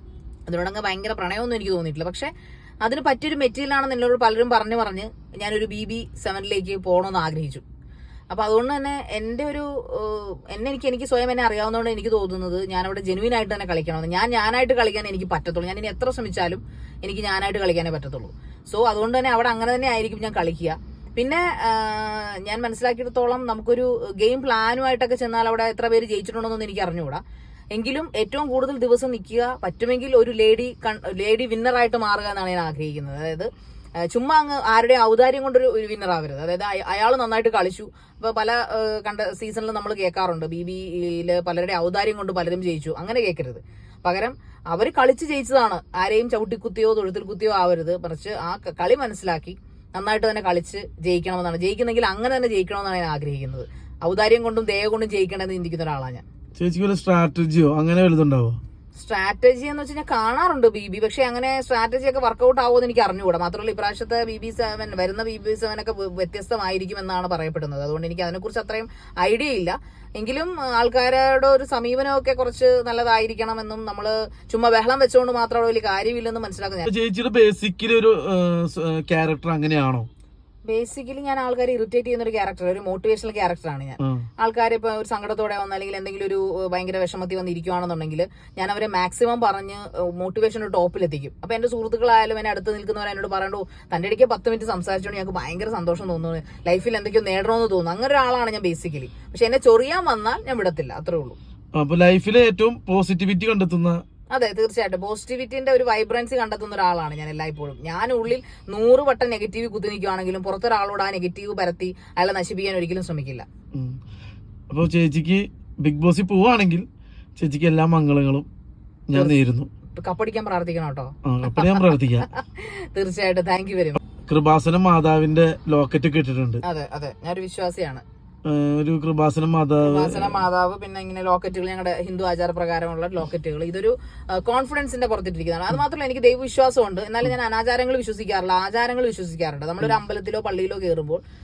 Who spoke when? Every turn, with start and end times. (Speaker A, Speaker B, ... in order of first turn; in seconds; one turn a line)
Speaker A: 0.5-2.3
Speaker A: 2.8-7.6
Speaker A: 8.3-27.2
Speaker A: 27.7-33.5
Speaker A: 34.1-56.2
Speaker B: 56.6-58.6
Speaker A: 59.0-76.9
Speaker B: 76.8-80.1
Speaker A: 80.7-101.3
Speaker B: 84.0-84.2
Speaker B: 101.7-104.0
Speaker A: 104.3-113.4
Speaker B: 114.7-116.8
Speaker B: 117.4-118.5
Speaker B: 119.1-119.7
Speaker A: 120.0-124.0
Speaker B: 121.2-122.3
Speaker B: 124.2-126.6
Speaker A: 126.6-128.0
Speaker B: 128.4-130.4
Speaker A: 129.8-141.2